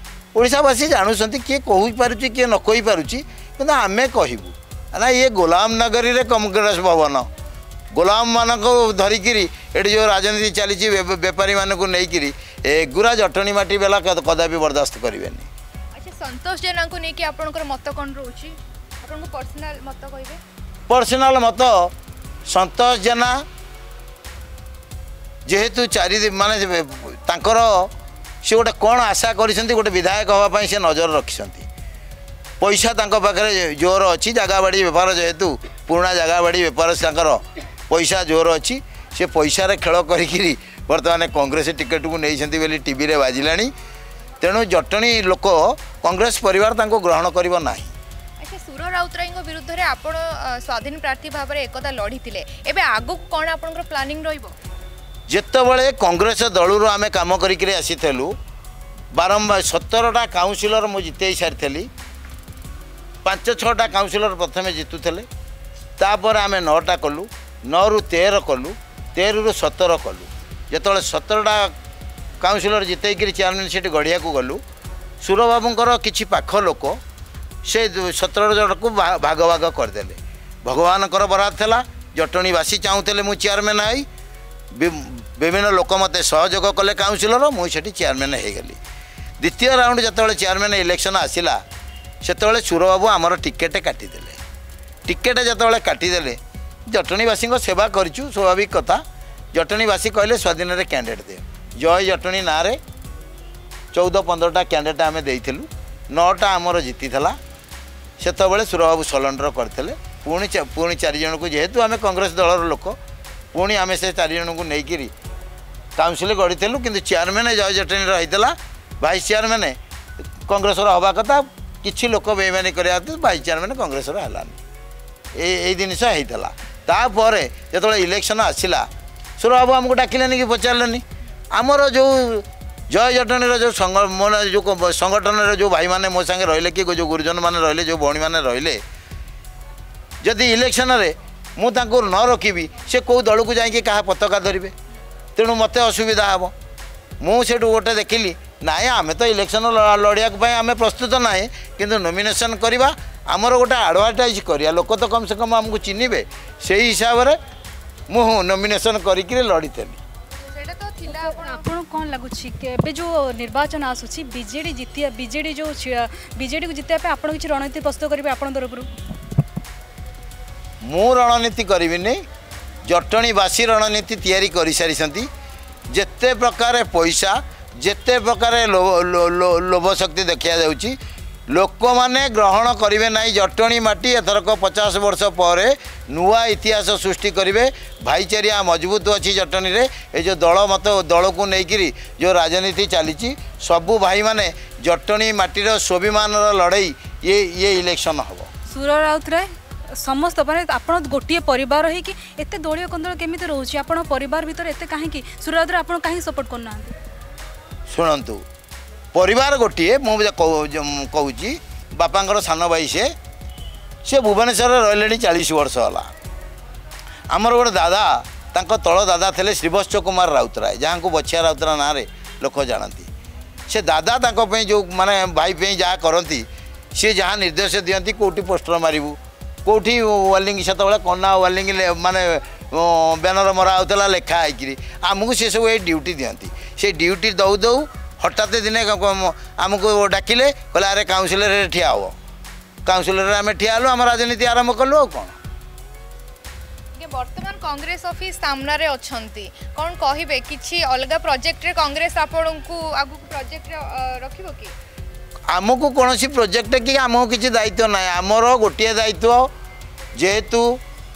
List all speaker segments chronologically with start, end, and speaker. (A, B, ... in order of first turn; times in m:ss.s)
0:00.4-0:07.3 A
0:08.0-0:15.5 A
0:16.0-0:20.4 B
0:20.9-0:21.9 A
0:22.5-0:23.4 A
0:25.5-0:27.9 A
0:28.4-0:31.7 A
0:32.6-0:43.7 A
0:44.4-0:47.9 A
0:48.4-0:54.6 B
0:55.3-0:58.4 A
0:59.1-1:01.9 A
1:03.2-1:05.3 A
1:06.0-1:11.8 A
1:12.4-1:14.6 A
1:15.2-1:17.0 A
1:17.6-1:24.1 A
1:24.7-1:28.8 A
1:29.4-1:31.6 A
1:32.2-1:34.4 A
1:35.1-1:39.0 A
1:39.5-1:42.8 A
1:43.9-1:47.4 A
1:48.2-1:53.0 A
1:53.5-1:55.1 A
1:56.0-1:59.8 A
2:00.5-2:04.6 A
2:05.4-2:08.9 A
2:09.4-2:18.8 A
2:20.2-2:24.7 A
2:25.4-2:26.5 A
2:27.2-2:37.4 A
2:38.1-2:40.0 A
2:40.4-2:41.7 B
2:41.1-2:48.9 C
2:50.8-2:52.2 A
2:52.8-2:55.3 A
2:55.9-3:01.0 A
3:01.5-3:18.5 A
3:18.7-3:19.5 C
3:20.0-3:27.0 C
3:27.9-3:28.4 A
3:29.1-3:33.1 A
3:34.0-3:36.1 A
3:37.3-3:43.1 A
3:43.7-4:02.1 A
4:02.8-4:05.4 A
4:07.0-4:14.7 B
4:15.5-4:19.5 A
4:20.2-4:20.8 A